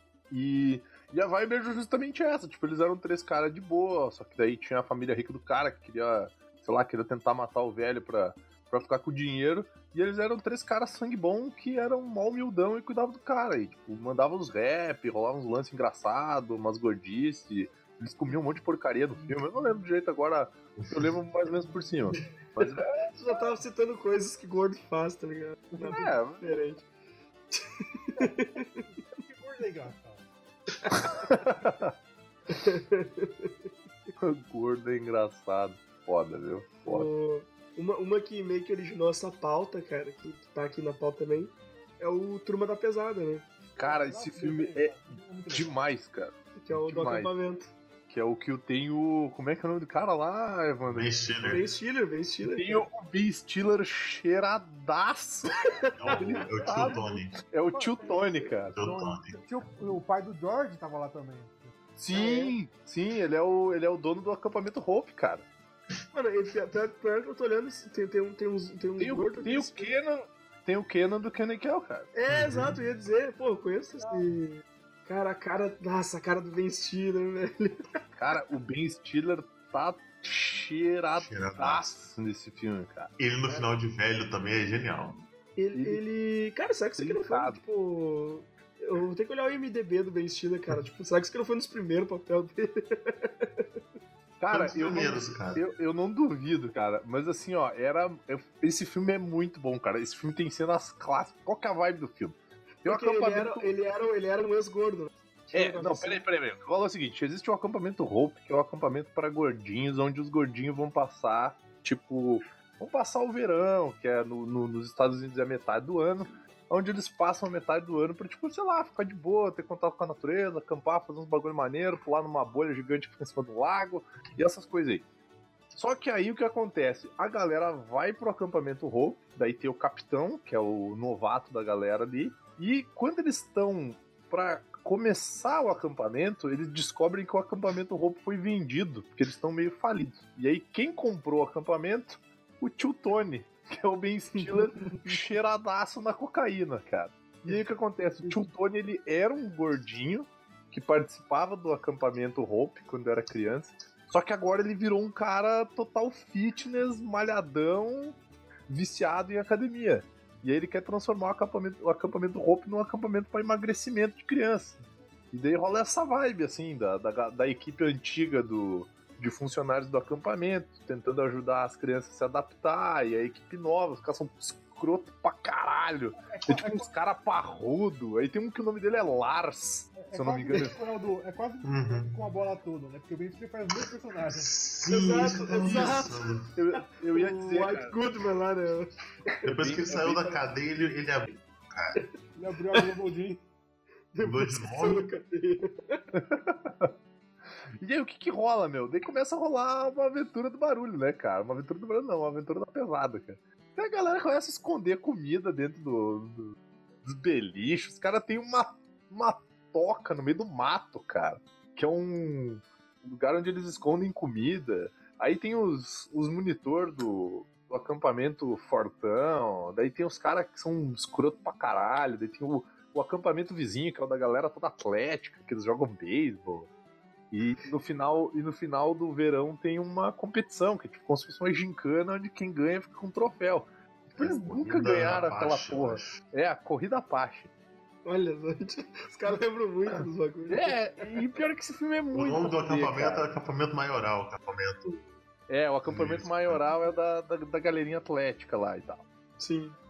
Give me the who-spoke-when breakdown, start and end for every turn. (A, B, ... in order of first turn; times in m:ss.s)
0:00.3-0:23.1 A
0:19.2-0:19.8 B
0:20.8-0:21.1 C
0:23.1-0:26.9 D
0:25.7-0:26.5 A
0:27.5-0:28.8 D
0:28.2-0:30.3 B
0:31.2-0:31.9 A
0:32.5-0:33.5 D
0:34.2-0:37.1 A
0:36.8-0:43.4 D
0:43.7-0:45.9 B
0:43.8-0:45.0 A
0:45.5-0:47.3 A
0:46.6-0:47.7 D
0:48.1-0:51.6 A
0:50.9-0:51.7 C
0:51.5-0:52.9 D
0:52.5-0:55.6 A
0:55.6-0:56.8 D
0:56.0-0:57.4 C
0:56.1-0:58.9 A
0:57.7-1:01.8 B
0:58.8-0:59.4 C
1:02.0-1:05.5 A
1:02.1-1:02.6 D
1:06.1-1:09.9 D
1:09.0-1:12.1 A
1:12.2-1:17.8 D
1:12.3-1:12.8 C
1:14.0-1:14.3 B
1:18.2-1:23.1 A
1:21.2-1:22.0 C
1:23.2-1:25.2 C
1:23.4-1:23.7 D
1:25.6-1:33.7 D
1:25.8-1:26.0 A
1:27.0-1:27.6 A
1:34.4-1:43.7 A
1:34.5-1:35.6 C
1:42.8-1:46.2 D
1:45.5-2:05.0 A
2:05.7-2:38.2 A
2:24.4-2:25.2 D
2:38.7-2:44.8 A
2:45.3-3:00.8 A
2:56.2-2:56.9 B
2:59.9-3:04.5 B
3:01.6-3:02.2 C
3:04.3-3:06.5 C
3:04.9-3:06.4 D
3:05.6-3:06.0 A
3:06.5-3:08.0 A
3:07.1-3:08.9 D
3:09.4-3:10.4 A
3:09.4-3:12.0 C
3:12.4-3:13.4 B
3:14.1-3:16.0 D
3:14.2-3:15.1 C
3:16.1-3:16.9 A
3:17.8-3:46.7 A
3:47.3-3:57.5 A
3:54.2-3:56.2 C
3:58.0-4:00.8 D
4:00.5-4:03.3 A
4:02.1-4:05.1 C
4:05.5-4:09.0 A
4:05.8-4:06.6 C
4:09.4-4:09.8 D